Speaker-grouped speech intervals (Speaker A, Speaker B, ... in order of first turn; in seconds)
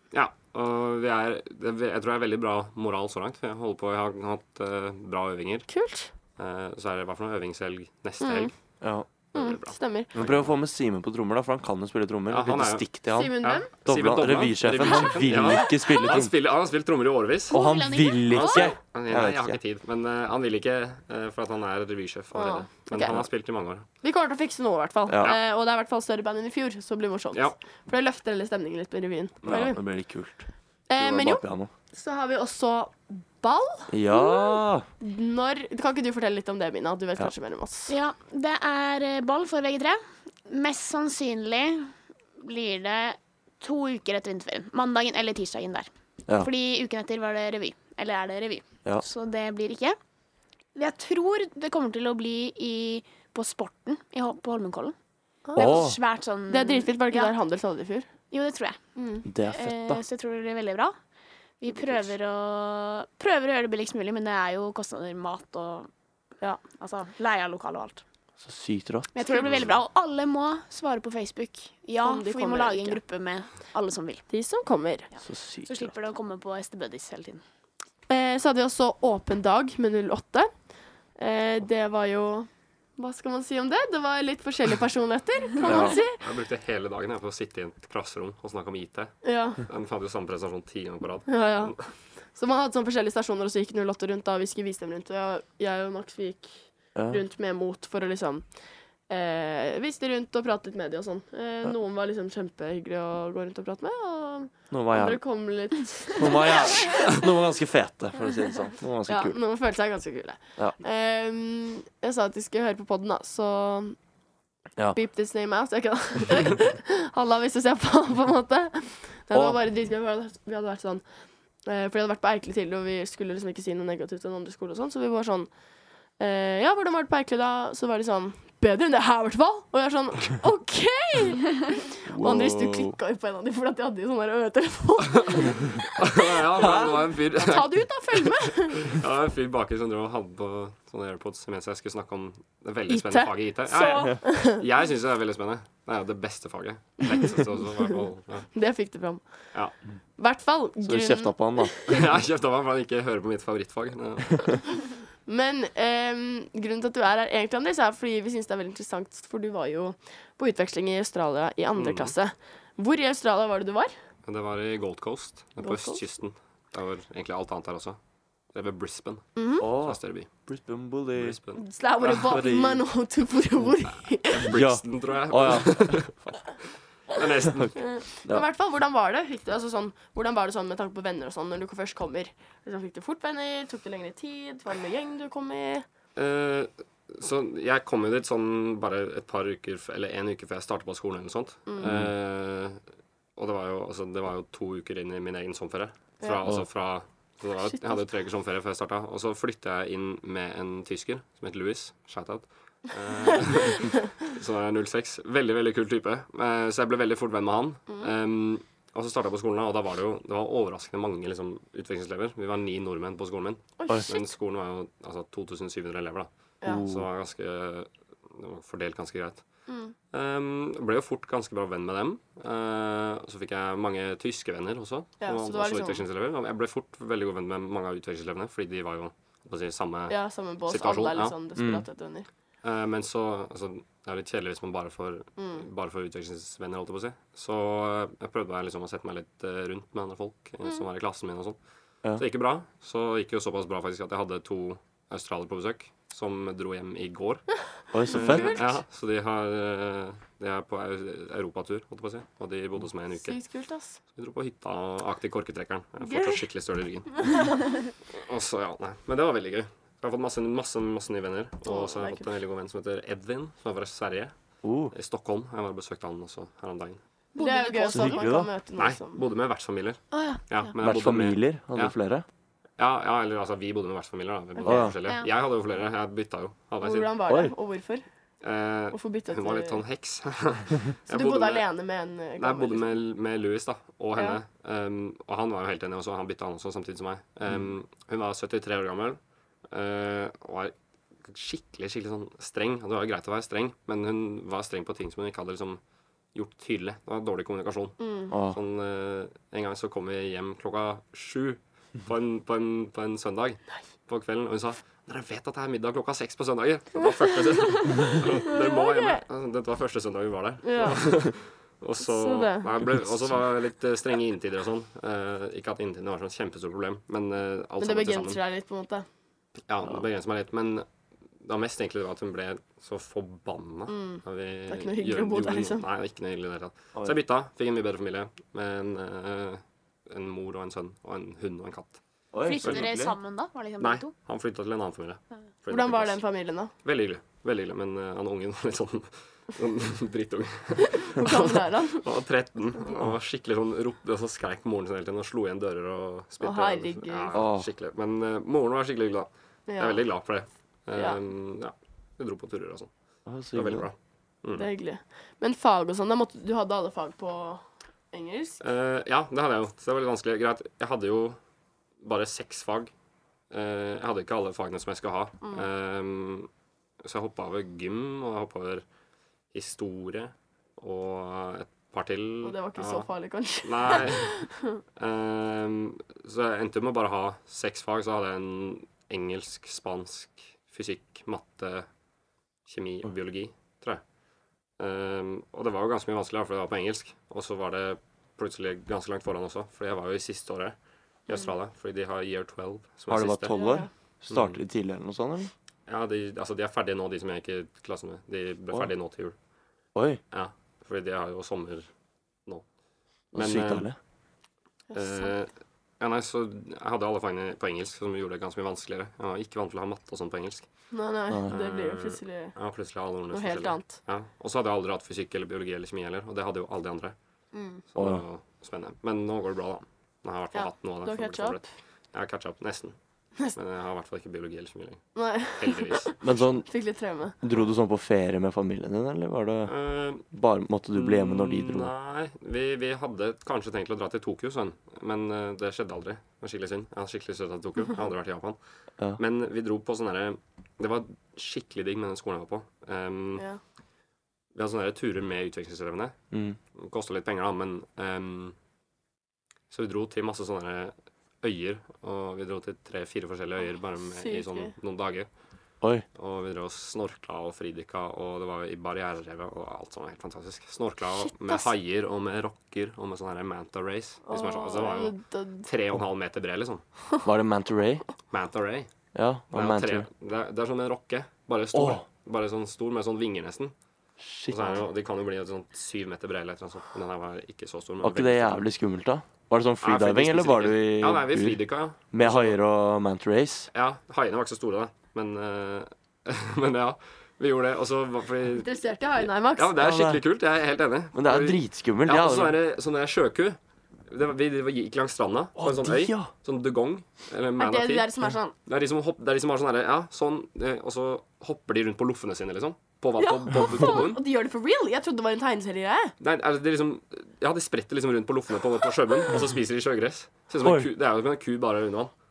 Speaker A: 0.1-5.7, 6.4-8.6, 9.3-10.5, 12.3-12.9, 13.4-17.5, 18.4-23.9, 69.4-69.7, 86.2-91.8, 136.0-148.5, 151.9-154.7, 161.8-162.1, 164.2-168.0, 168.5-170.3, 171.1-172.5, 174.2-176.2, 177.1-177.8, 186.2-192.8, 193.3-219.4, 220.1-231.3, 232.6-241.6, 242.2-247.5, 248.1-253.4, 254.2-264.3, 264.9-267.0, 268.8-271.9, 272.8-277.1, 278.4-281.6, 282.4-295.8, 296.3-318.4, 319.7-320.9, 321.4-332.0, 332.6-332.9, 333.8-336.2, 336.8-352.9, 353.5-354.7, 358.6-361.4, 362.0-362.9, 363.5-366.5, 367.0-368.8, 369.5-373.1, 373.6-374.4, 374.9-381.9, 382.7-384.0, 384.8-390.7, 391.3-393.5, 394.3-394.6, 395.9-399.3, 400.3-401.9, 403.3-403.9, 404.9-410.7, 411.5-417.1, 417.9-422.9, 423.5-426.2, 429.6-430.2, 430.9-438.6, 439.2-443.4, 444.5-446.1, 446.8-448.5, 449.7-455.3, 456.1-466.8, 468.3-468.9, 469.5-473.7, 474.5-478.6, 479.8-482.6, 483.7-498.1, 498.6-504.2, 506.2-512.1
Speaker B: 5.7-6.1, 8.2-8.5, 9.3-10.1, 13.1-13.7, 22.3-23.2, 24.0-29.8, 30.9-34.3, 35.0-37.9, 55.4-55.9, 56.5-58.1, 59.0-59.3, 72.0-73.0, 74.3-75.1, 78.1-80.5, 81.2-86.2, 89.2-89.6, 91.3-91.8, 92.3-98.5, 99.1-107.2, 109.1-114.0, 114.9-121.0, 121.7-125.5, 126.2-139.0, 142.9-144.6, 148.5-149.2, 150.2-152.0, 155.2-163.9, 165.6-166.0, 169.3-169.7, 171.5-174.5, 177.8-185.8, 191.7-191.9, 197.7-198.0, 213.8-214.3, 219.7-219.9, 225.2-226.0, 230.1-232.3, 235.4-235.6, 248.1-248.7, 253.1-254.0, 256.0-256.4, 257.2-257.8, 261.6-262.3, 267.4-269.2, 276.8-278.1, 278.9-279.8, 281.1-282.9, 298.0-298.3, 307.0-309.2, 310.6-311.3, 312.0-312.7, 317.8-319.1, 323.9-325.9, 335.7-336.7, 340.8-342.1, 346.4-347.4, 349.7-350.0, 354.5-358.6, 372.4-374.8, 393.5-393.9, 404.9-405.3, 410.9-412.5, 413.3-414.0, 417.5-417.8, 420.5-421.6, 425.1-427.4, 454.0-454.7, 461.1-461.7, 464.2-465.7, 488.5-489.7, 497.6-498.5, 503.2-506.1
Speaker C: 8.8-9.1, 10.1-16.3, 17.5-19.6, 25.1-25.3, 29.4-30.4, 31.0-31.7, 33.9-34.9, 55.5-56.0, 59.2-60.0, 68.4-69.6, 75.2-75.9, 85.6-86.0, 96.9-97.2, 104.7-105.2, 106.2-109.4, 119.3-119.6, 132.1-132.9, 136.6-136.9, 150.8-151.7, 169.6-171.4, 172.2-172.8, 174.5-176.1, 191.8-192.1, 216.6-217.1, 231.6-231.8, 247.9-248.7, 264.6-264.9, 267.9-268.5, 270.8-272.2, 274.6-275.0, 277.3-277.5, 298.3-298.6, 332.3-333.2, 347.3-347.7, 353.2-353.9, 393.1-395.5, 399.9-400.2, 403.3-404.0, 418.0-418.2, 426.2-426.7, 427.4-429.7, 430.3-431.9, 446.3-446.6, 467.2-468.0, 469.1-470.1, 471.7-472.0, 474.2-474.8, 478.0-481.6, 482.1-483.7, 489.8-490.2, 491.1-492.6, 495.6-496.3, 510.6-510.9
Speaker D: 15.3-16.0, 17.5-18.8, 37.9-50.0, 50.7-54.9, 55.5-57.3, 58.3-58.8, 59.5-61.0, 61.6-65.9, 66.8-68.0, 69.1-74.2, 75.1-77.4, 267.3-268.3, 270.1-270.7, 275.0-275.3, 332.4-334.1